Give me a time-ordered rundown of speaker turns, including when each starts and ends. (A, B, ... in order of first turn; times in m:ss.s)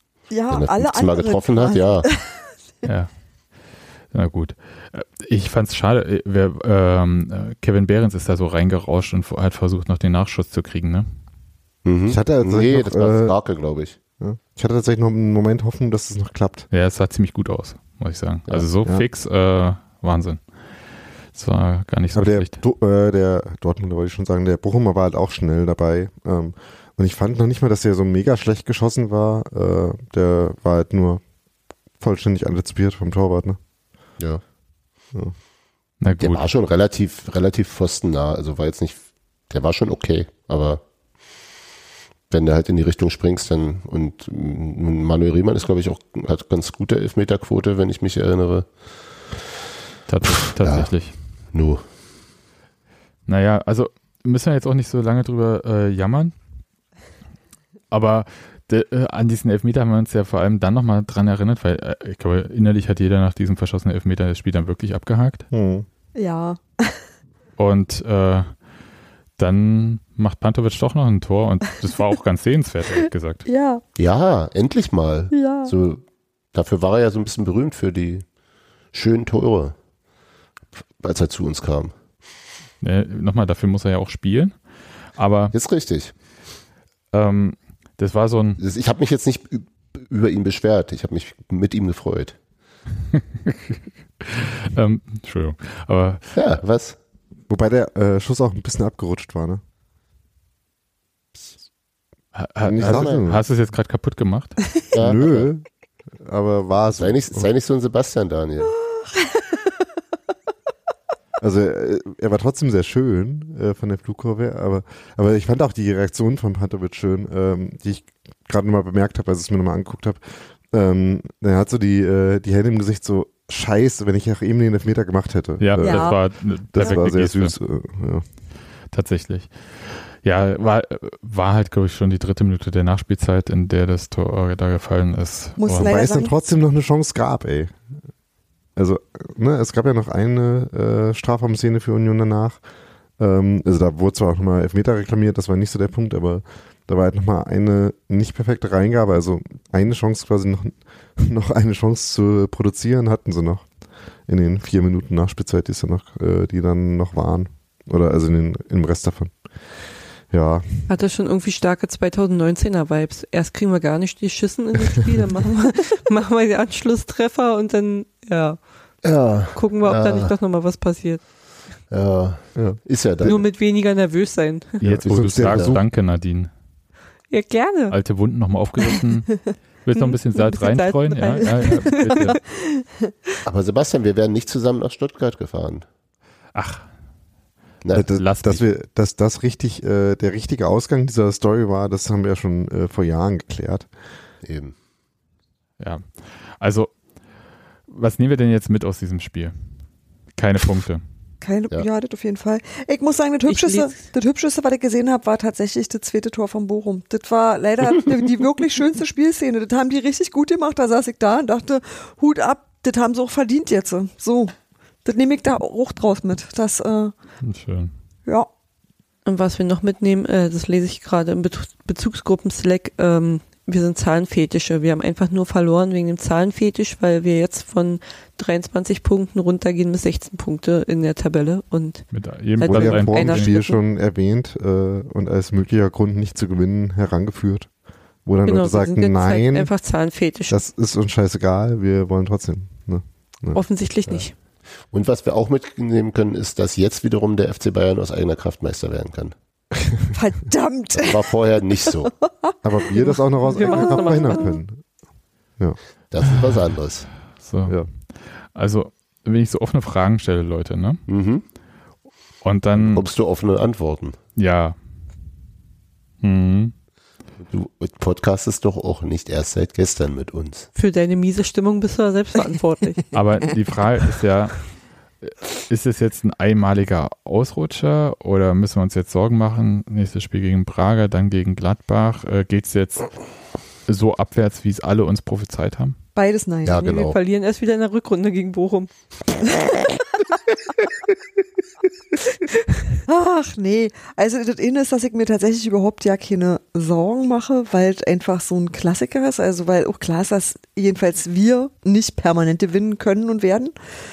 0:00.3-0:02.5 A
0:00.5-0:02.1 B
0:02.8-0:03.1 C
0:04.1-0:11.1 C
0:11.8-0:14.0 B
0:12.1-0:13.4 D
0:14.2-0:16.7 D
0:16.7-0:20.4 C
0:21.3-0:22.6 C
0:22.1-0:31.2 D
0:32.0-0:33.6 D
0:36.0-0:36.5 C
0:36.2-0:40.8 B
0:42.3-0:48.7 B
0:50.1-0:51.2 C
0:50.5-0:50.9 B
0:51.5-0:51.8 B
0:53.3-0:56.3 C
0:57.9-1:05.5 C
1:05.5-1:05.9 D
1:06.2-1:07.1 A
1:07.6-1:08.6 C
1:09.4-1:13.4 C
1:13.4-1:13.8 A
1:14.0-1:16.0 B
1:15.3-1:15.7 A
1:16.5-1:18.3 B
1:18.9-1:19.8 B
1:21.0-1:21.9 B
1:22.8-1:24.6 C
1:25.2-1:25.6 C
1:25.5-1:26.2 B
1:27.1-1:28.6 C
1:28.6-1:32.4 B
1:33.1-1:36.3 C
1:36.4-1:37.0 B
1:37.5-1:39.6 D
1:42.3-1:44.6 C
1:42.6-1:43.4 D
1:42.8-1:43.2 B
1:44.9-1:45.5 B
1:45.0-1:45.6 D
1:46.2-1:47.5 D
1:47.0-1:48.7 B
1:49.2-1:49.5 A
1:51.4-2:08.2 D
2:05.6-2:07.6 C
2:05.8-2:06.2 A
2:08.9-2:15.9 C
2:15.6-2:16.3 A
2:15.8-2:17.8 D
2:18.8-2:22.6 D
2:23.2-2:33.7 D
2:34.3-2:39.4 D
2:40.3-2:40.8 D
2:40.9-2:48.6 E
2:49.0-2:50.3 B
2:49.5-2:51.2 E
2:51.9-2:53.4 B
2:52.6-2:53.4 D
2:53.2-2:54.8 E
2:54.8-2:56.5 C
2:54.8-2:55.8 D
2:55.5-2:55.8 B
2:57.3-2:58.0 E
2:57.9-3:02.4 C
3:00.0-3:02.4 E
3:03.4-3:05.9 B
3:06.5-3:06.9 C
3:07.9-3:13.9 D
3:08.1-3:08.6 C
3:14.4-3:14.8 B
3:15.8-3:16.9 C
3:17.9-3:19.6 C
3:20.4-3:21.0 C
3:21.4-3:37.1 A
3:23.5-3:24.0 E
3:37.4-3:37.9 C
3:39.2-3:53.8 E
3:52.1-3:53.6 C
3:52.6-3:57.7 D
3:58.2-3:59.7 D
3:58.5-4:00.6 E
4:00.5-4:03.6 D
4:03.5-4:04.3 E
4:04.8-4:09.3 B
4:10.1-4:11.3 A
4:11.0-4:12.1 B
4:12.0-4:14.5 A
4:12.6-4:14.8 D
4:13.5-4:14.6 E
4:16.1-4:17.1 B
4:17.4-4:21.0 C
4:21.1-4:21.4 B
4:22.4-4:23.1 C
4:22.8-4:24.2 B
4:24.4-4:24.8 C
4:26.2-4:26.7 C
4:27.4-4:30.7 B
4:30.8-4:33.0 E
4:33.1-4:46.0 C
4:46.2-4:46.9 A
4:46.6-4:47.2 B
4:46.8-4:48.9 E
4:53.1-5:03.7 A